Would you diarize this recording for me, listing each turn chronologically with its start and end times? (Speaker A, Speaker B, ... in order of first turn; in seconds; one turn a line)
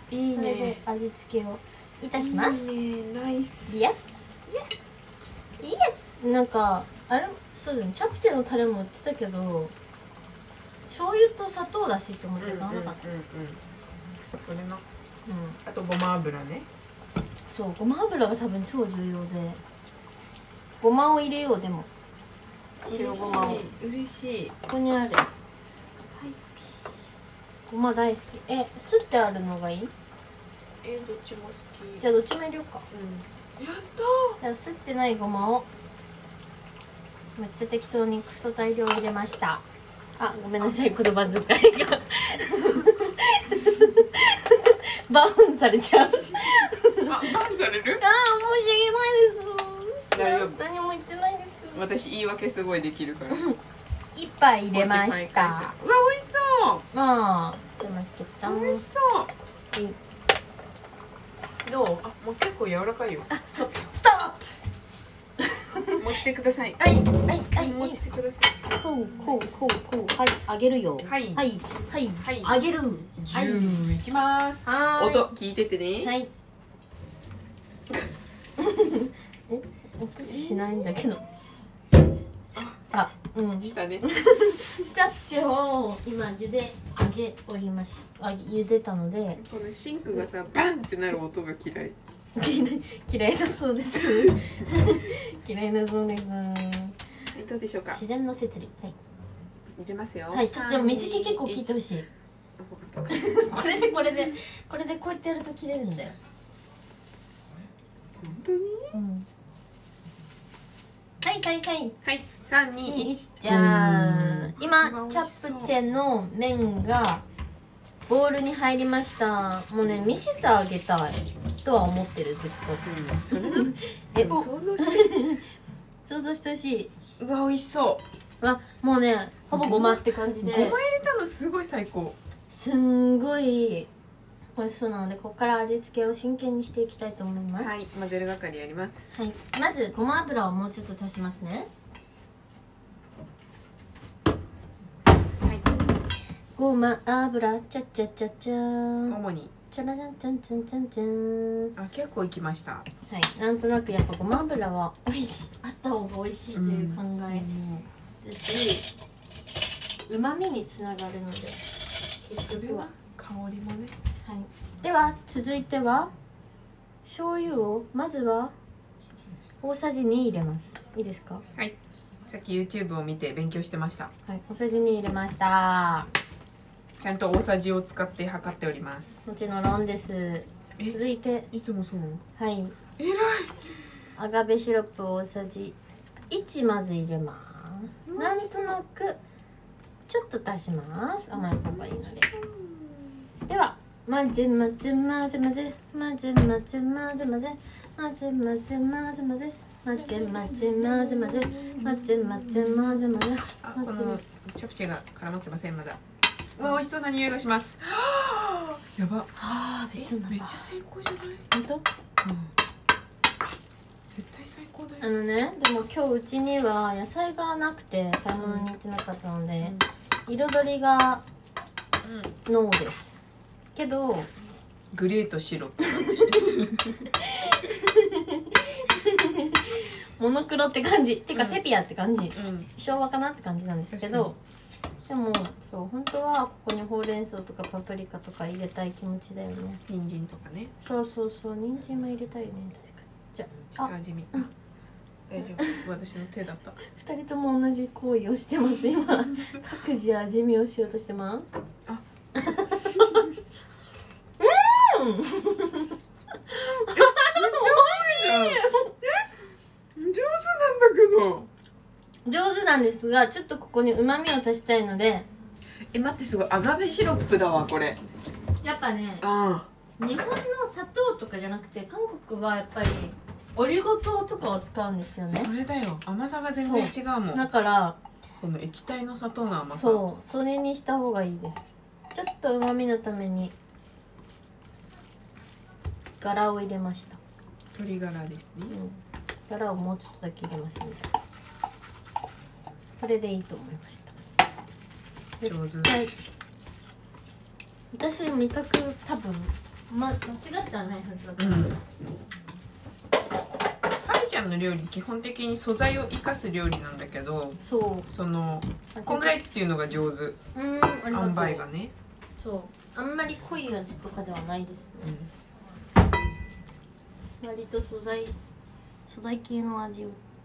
Speaker A: 0.1-0.8
Speaker B: 0.3-2.6
Speaker A: 2.2-3.8
Speaker B: 3.7-4.2
Speaker B: 5.6-9.7
Speaker B: 10.9-13.0
Speaker A: 12.4-13.6
Speaker A: 14.3-14.8
Speaker B: 15.3-15.6
Speaker A: 15.7-16.7
Speaker B: 17.5-19.6
Speaker B: 20.8-21.9
Speaker A: 22.9-24.6
Speaker B: 22.9-23.7
Speaker B: 24.7-25.3
Speaker A: 26.1-26.9
Speaker B: 27.7-29.9
Speaker A: 30.8-32.1
Speaker B: 32.0-32.9
Speaker A: 32.9-34.4
Speaker B: 34.4-35.7
Speaker B: 37.4-39.6
Speaker B: 40.2-47.3
Speaker A: 40.9-41.4
Speaker A: 47.0-48.0
Speaker B: 48.0-51.9
Speaker A: 50.1-50.6
Speaker A: 51.7-53.4
Speaker B: 53.3-53.6
Speaker B: 54.1-55.7
Speaker A: 54.5-56.9
Speaker B: 56.9-58.9
Speaker A: 58.4-59.3
Speaker A: 61.6-63.7
Speaker B: 63.3-64.5
Speaker B: 65.5-66.0
Speaker A: 65.9-66.8
Speaker B: 66.8-68.0
Speaker A: 67.5-68.5
Speaker B: 68.7-73.8
Speaker A: 71.0-71.5
Speaker A: 72.2-72.6
Speaker A: 73.2-76.1
Speaker B: 74.7-75.3
Speaker B: 76.0-76.3
Speaker B: 78.6-81.2
Speaker A: 80.2-81.0
Speaker A: 82.5-82.8
Speaker B: 82.9-89.4
Speaker A: 83.6-84.0
Speaker A: 89.3-92.0
Speaker B: 92.4-97.0
Speaker A: 94.0-94.4
Speaker A: 97.3-98.0
Speaker B: 97.9-99.0
Speaker A: 99.8-101.8
Speaker B: 100.3-102.1
Speaker A: 102.6-104.3
Speaker B: 103.1-106.2
Speaker A: 108.2-109.0
Speaker B: 108.9-109.3
Speaker B: 111.2-112.0
Speaker A: 112.0-115.8
Speaker B: 112.9-117.2
Speaker B: 118.1-125.5
Speaker A: 122.8-125.3
Speaker B: 126.1-126.9
Speaker A: 127.2-128.0
Speaker B: 128.4-130.8
Speaker A: 129.5-132.2
Speaker B: 132.5-133.9
Speaker B: 134.6-137.7
Speaker A: 137.6-139.1
Speaker B: 139.1-141.7
Speaker A: 145.4-145.8
Speaker B: 146.6-149.2
Speaker A: 149.1-149.5
Speaker B: 149.7-151.8
Speaker A: 151.8-152.9
Speaker B: 153.1-157.5
Speaker A: 156.5-157.9
Speaker B: 158.2-158.9
Speaker B: 160.1-161.6
Speaker B: 162.2-162.9
Speaker A: 162.4-164.0
Speaker B: 164.2-166.1
Speaker B: 167.1-168.5
Speaker B: 169.6-171.4
Speaker A: 172.3-174.1
Speaker B: 174.3-176.1
Speaker A: 177.0-179.2
Speaker B: 179.3-181.5
Speaker A: 181.5-182.2
Speaker B: 182.4-182.8
Speaker A: 183.0-183.7
Speaker B: 184.2-185.8
Speaker B: 186.3-189.2
Speaker A: 188.1-188.8
Speaker B: 190.1-192.3
Speaker A: 191.3-193.3
Speaker B: 193.5-204.2
Speaker A: 199.9-206.0
Speaker A: 206.6-209.3
Speaker B: 209.4-210.7
Speaker A: 210.0-211.5
Speaker B: 211.5-211.9
Speaker A: 212.2-212.5
Speaker A: 214.1-215.1
Speaker B: 215.0-221.2
Speaker A: 218.4-218.7
Speaker A: 222.0-222.3
Speaker B: 222.5-224.3
Speaker A: 224.9-227.1
Speaker B: 227.2-234.4
Speaker A: 231.3-231.6
Speaker A: 232.3-232.7
Speaker A: 233.9-234.3
Speaker B: 235.1-239.8
Speaker A: 239.9-240.7
Speaker B: 240.8-244.5
Speaker A: 243.7-244.5
Speaker A: 245.3-246.8
Speaker B: 245.4-245.8
Speaker B: 246.8-251.5
Speaker B: 252.3-253.3
Speaker B: 254.4-256.0
Speaker B: 256.5-258.9
Speaker A: 256.8-259.2
Speaker A: 260.0-261.5
Speaker B: 262.2-265.3
Speaker A: 265.9-268.0
Speaker B: 268.6-269.3
Speaker A: 269.2-269.7
Speaker B: 270.0-275.5
Speaker A: 275.3-277.5
Speaker B: 276.6-278.0
Speaker A: 278.4-280.0
Speaker B: 279.7-283.5
Speaker B: 286.2-287.2
Speaker A: 287.7-288.8
Speaker B: 288.7-291.1
Speaker B: 293.0-294.1
Speaker B: 295.4-296.1
Speaker A: 295.4-295.9
Speaker B: 297.9-301.8
Speaker A: 301.4-301.8
Speaker A: 304.0-310.4
Speaker B: 307.6-308.1
Speaker B: 308.9-309.4
Speaker B: 310.6-311.7
Speaker A: 311.1-311.9
Speaker B: 312.4-315.1
Speaker A: 315.0-315.3
Speaker B: 317.4-318.4
Speaker B: 319.1-320.2